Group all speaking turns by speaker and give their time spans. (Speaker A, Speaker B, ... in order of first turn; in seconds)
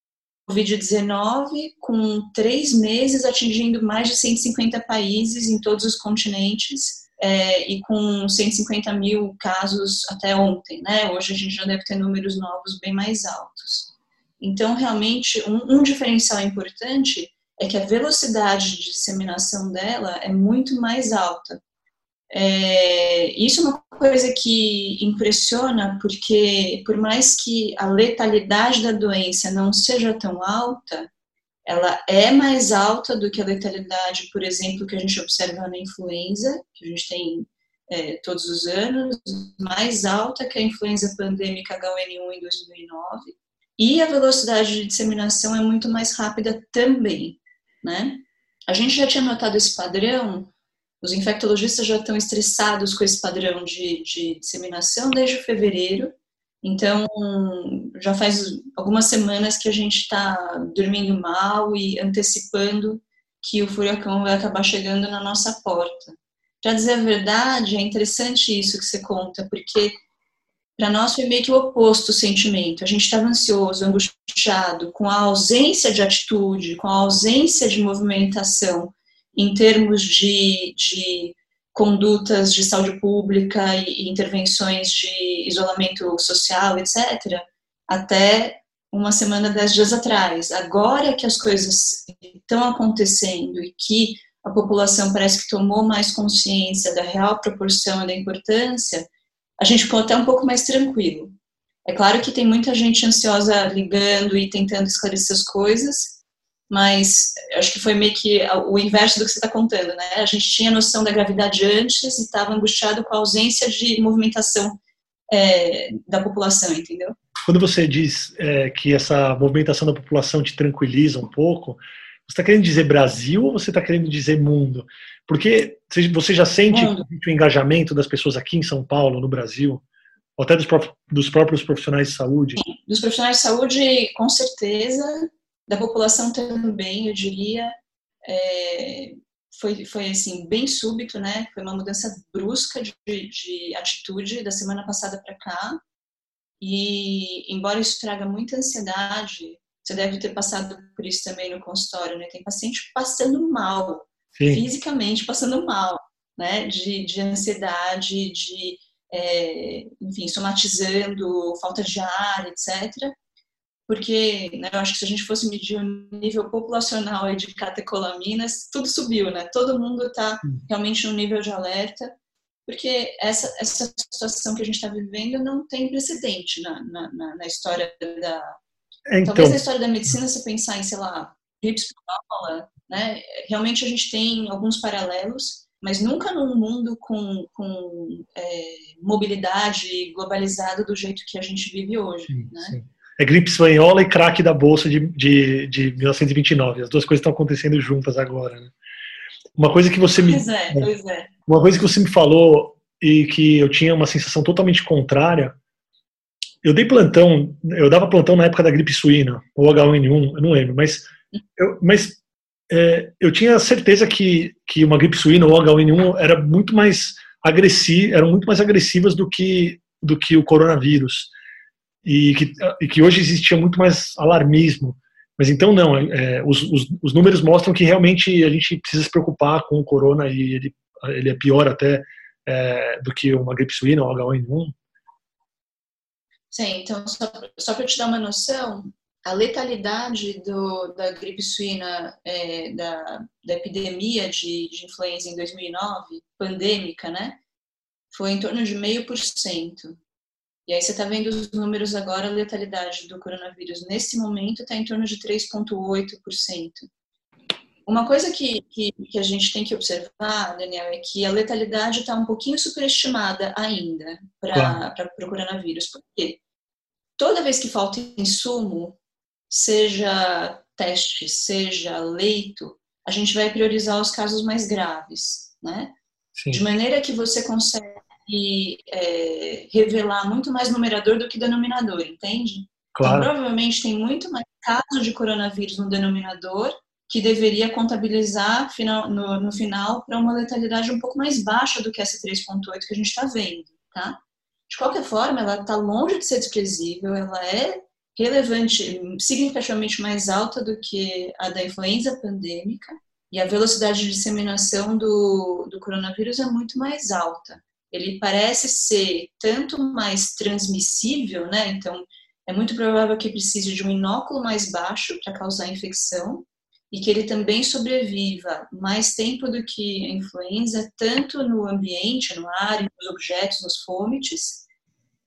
Speaker A: 0.5-21.6, 22.3-31.1, 31.6-56.1, 56.6-70.0, 70.8-99.1, 99.6-101.3, 101.8-106.2, 106.7-114.8, 115.3-117.2, 126.7-127.0, 132.6-137.7, 138.2-145.8, 146.6-163.1, 163.9-172.1, 172.7-178.5, 179.2-192.8, 200.2-201.3, 236.5-247.4, 248.1-250.0, 250.7-256.9, 257.9-266.4, 267.2-269.0, 269.5-275.9, 276.5-324.6
Speaker B: 117.4-129.8, 130.4-132.6, 154.4-154.6, 179.1-179.6, 192.3-198.7, 199.6-200.9, 201.5-205.6, 206.6-212.2, 212.7-221.3, 222.0-234.7, 264.5-264.8, 276.4-276.6, 282.9-283.3